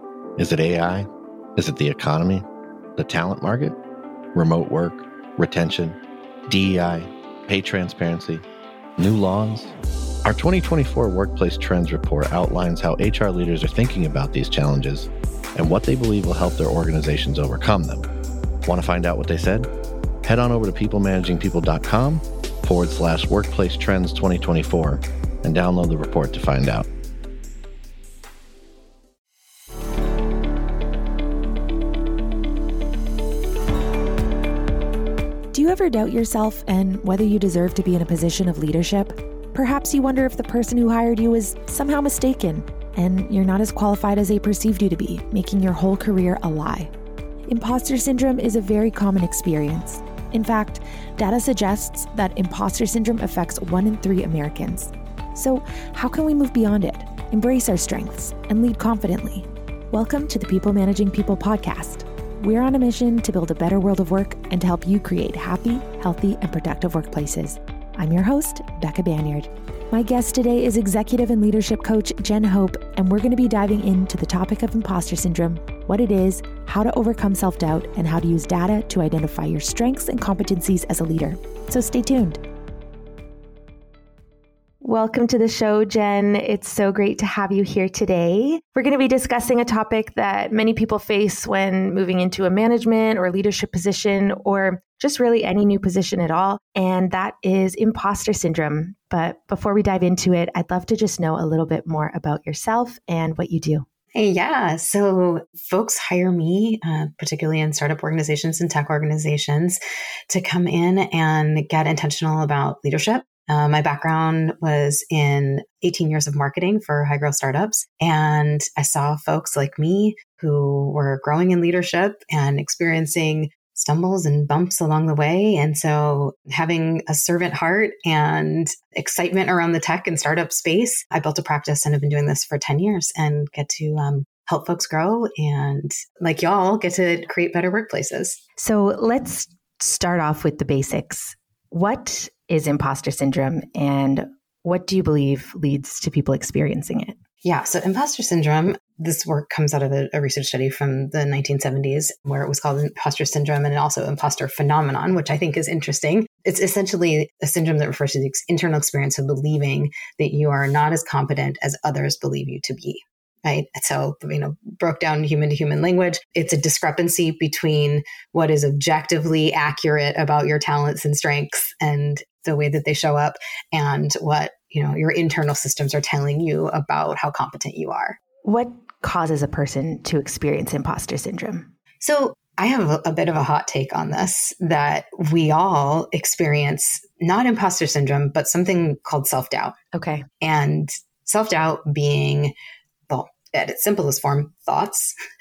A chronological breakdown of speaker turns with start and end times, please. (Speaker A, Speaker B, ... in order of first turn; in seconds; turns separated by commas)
Speaker A: 0.4-2.5, Speaker A: 3.0-3.8, Speaker A: 4.3-8.4, Speaker A: 9.0-9.7, Speaker A: 10.2-18.1, Speaker A: 18.7-19.7, Speaker A: 20.2-26.9, Speaker B: 35.5-46.9, Speaker B: 47.5-82.4, Speaker B: 84.8-103.8, Speaker C: 104.2-138.4, Speaker B: 138.6-147.2, Speaker C: 147.4-178.2, Speaker B: 178.4-181.7, Speaker C: 182.0-189.8, Speaker B: 189.9-190.3, Speaker C: 190.4-192.5, Speaker C: 193.1-195.2